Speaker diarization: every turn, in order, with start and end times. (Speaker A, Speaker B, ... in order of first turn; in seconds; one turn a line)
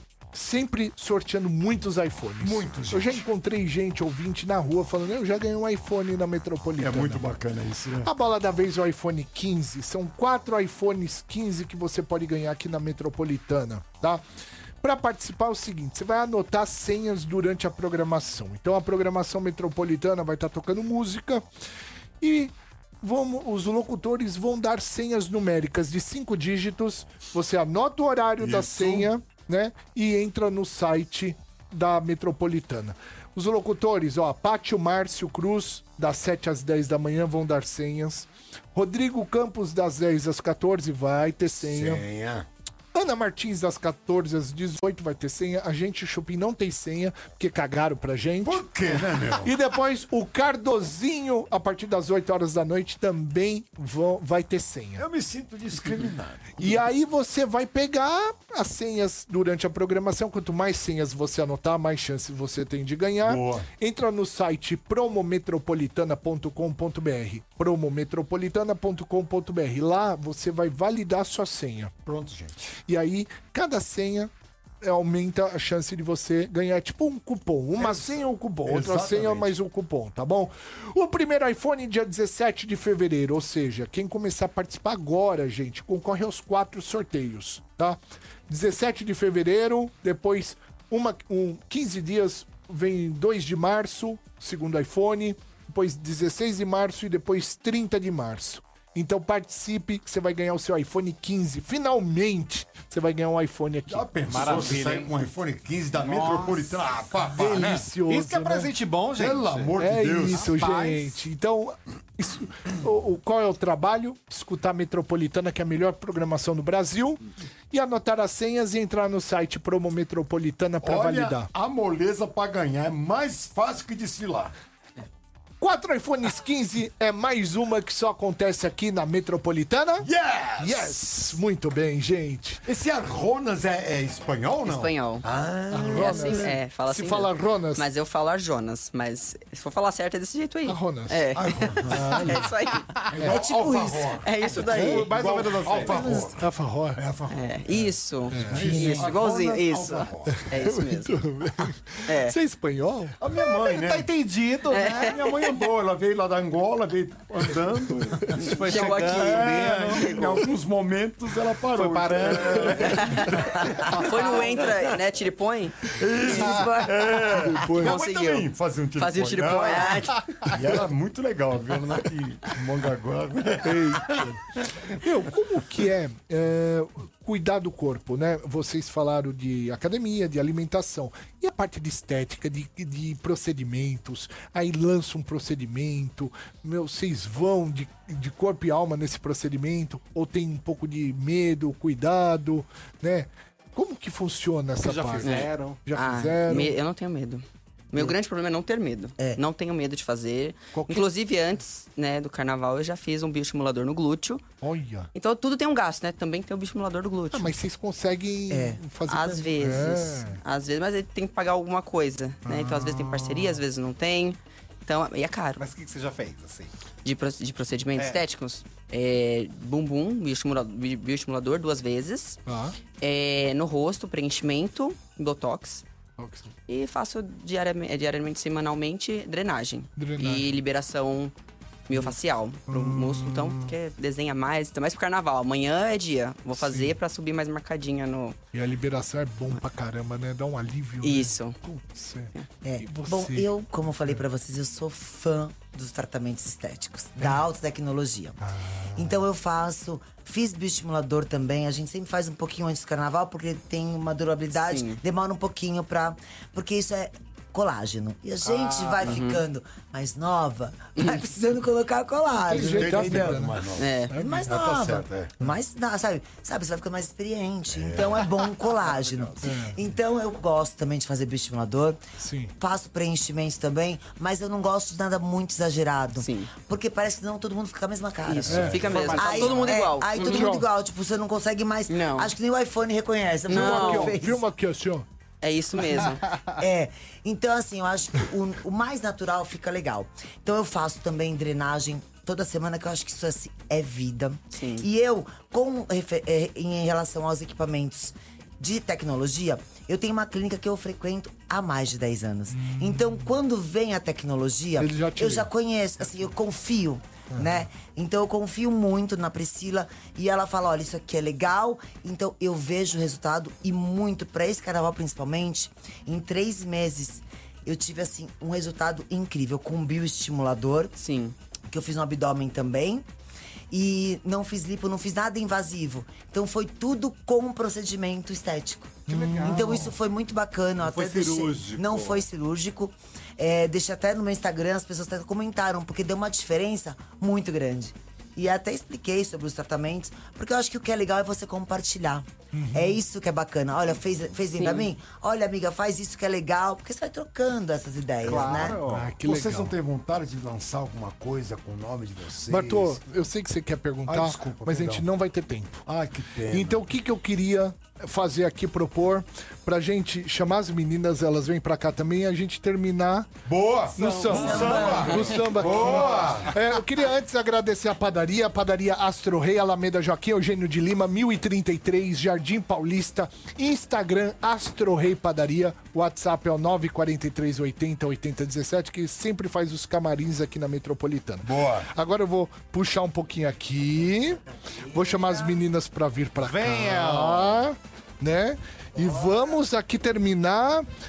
Speaker A: 0.3-7.2
Speaker B: 2.4-3.2
Speaker B: 6.8-8.1
Speaker A: 8.0-14.2
Speaker A: 14.8-21.4
Speaker A: 22.2-42.0
Speaker B: 28.4-29.1
Speaker B: 41.6-42.5
Speaker A: 42.9-48.7
Speaker B: 48.4-49.5
Speaker A: 49.4-55.0
Speaker B: 55.0-56.8
Speaker A: 56.6-71.9
Speaker B: 63.2-63.6
Speaker B: 72.0-72.6
Speaker A: 72.9-104.8
Speaker B: 77.8-79.5
Speaker B: 103.9-107.8
Speaker C: 104.3-105.1
Speaker C: 105.9-106.8
Speaker A: 107.3-108.7
Speaker C: 108.1-111.2
Speaker B: 109.2-110.6
Speaker A: 109.8-121.5
Speaker B: 120.8-124.5
Speaker A: 125.6-132.6
Speaker B: 130.0-131.2
Speaker B: 132.7-136.5
Speaker D: 134.6-135.2
Speaker A: 135.7-137.9
Speaker D: 135.9-143.1
Speaker A: 140.7-141.2
Speaker B: 141.3-142.2
Speaker A: 141.8-142.5
Speaker B: 143.1-147.6
Speaker A: 143.2-143.4
Speaker E: 143.2-144.2
Speaker D: 144.2-145.1
Speaker C: 144.5-146.3
Speaker E: 145.8-146.3
Speaker A: 146.3-147.0
Speaker D: 147.3-151.1
Speaker A: 147.8-149.1
Speaker B: 148.4-150.5
Speaker A: 150.3-153.2
Speaker D: 152.1-152.3
Speaker B: 153.2-154.1
Speaker C: 153.4-155.2
Speaker D: 154.7-155.2
Speaker B: 154.7-158.5
Speaker C: 157.9-160.5
Speaker D: 158.3-160.4
Speaker B: 159.1-164.7
Speaker C: 161.7-164.5
Speaker D: 162.8-166.9
Speaker B: 165.8-174.3
Speaker E: 166.3-167.2
Speaker A: 167.4-168.0
Speaker D: 167.7-170.3
Speaker A: 173.6-174.4
Speaker A: 174.9-196.8
Speaker C: 194.8-195.8
Speaker D: 195.2-204.4
Speaker A: 200.7-201.1
Speaker A: 204.6-205.1
Speaker D: 205.1-207.6
Speaker A: 207.3-210.4
Speaker E: 208.5-208.8
Speaker D: 209.1-215.6
Speaker A: 212.4-213.6
Speaker C: 215.6-216.7
Speaker D: 217.0-222.4
Speaker C: 218.0-218.2
Speaker A: 222.4-222.8
Speaker D: 223.0-225.8
Speaker A: 226.2-226.5
Speaker D: 226.7-231.3
Speaker A: 230.0-230.5
Speaker D: 231.9-238.4
Speaker A: 232.7-233.7
Speaker A: 236.5-236.9
Speaker A: 238.5-243.5
Speaker D: 241.0-241.6
Speaker E: 242.6-248.4
Speaker A: 248.4-249.2
Speaker E: 248.9-263.6
Speaker D: 254.6-255.0
Speaker C: 258.4-259.1
Speaker D: 259.0-259.4
Speaker A: 262.5-264.5
Speaker B: 262.5-265.3
Speaker D: 263.8-264.1
Speaker E: 264.1-272.0
Speaker B: 267.7-269.3
Speaker A: 269.4-269.8
Speaker A: 272.2-272.5
Speaker E: 272.6-284.4
Speaker D: 276.2-276.5
Speaker D: 278.2-280.5
Speaker A: 278.5-278.8
Speaker C: 278.7-279.8
Speaker A: 280.1-280.6
Speaker D: 281.9-282.3
Speaker D: 283.5-284.3
Speaker A: 283.5-285.1
Speaker D: 285.4-286.3
Speaker E: 286.5-320.9
Speaker D: 294.5-294.9
Speaker A: 302.5-303.3
Speaker A: 304.8-305.5
Speaker A: 307.3-307.7
Speaker D: 321.0-321.4
Speaker E: 321.7-323.1
Speaker E: 323.7-348.8
Speaker A: 329.1-329.9
Speaker C: 329.1-329.9
Speaker C: 330.8-332.3
Speaker A: 342.5-343.0
Speaker D: 344.6-344.9
Speaker C: 348.2-349.1
Speaker A: 348.3-349.7
Speaker B: 349.2-353.0
Speaker A: 352.5-355.8
Speaker B: 354.1-355.1
Speaker B: 355.9-356.8
Speaker A: 356.5-363.3
Speaker B: 363.4-366.6
Speaker A: 363.9-390.9
Speaker E: 364.0-365.8
Speaker B: 381.4-381.9
Speaker C: 386.4-387.7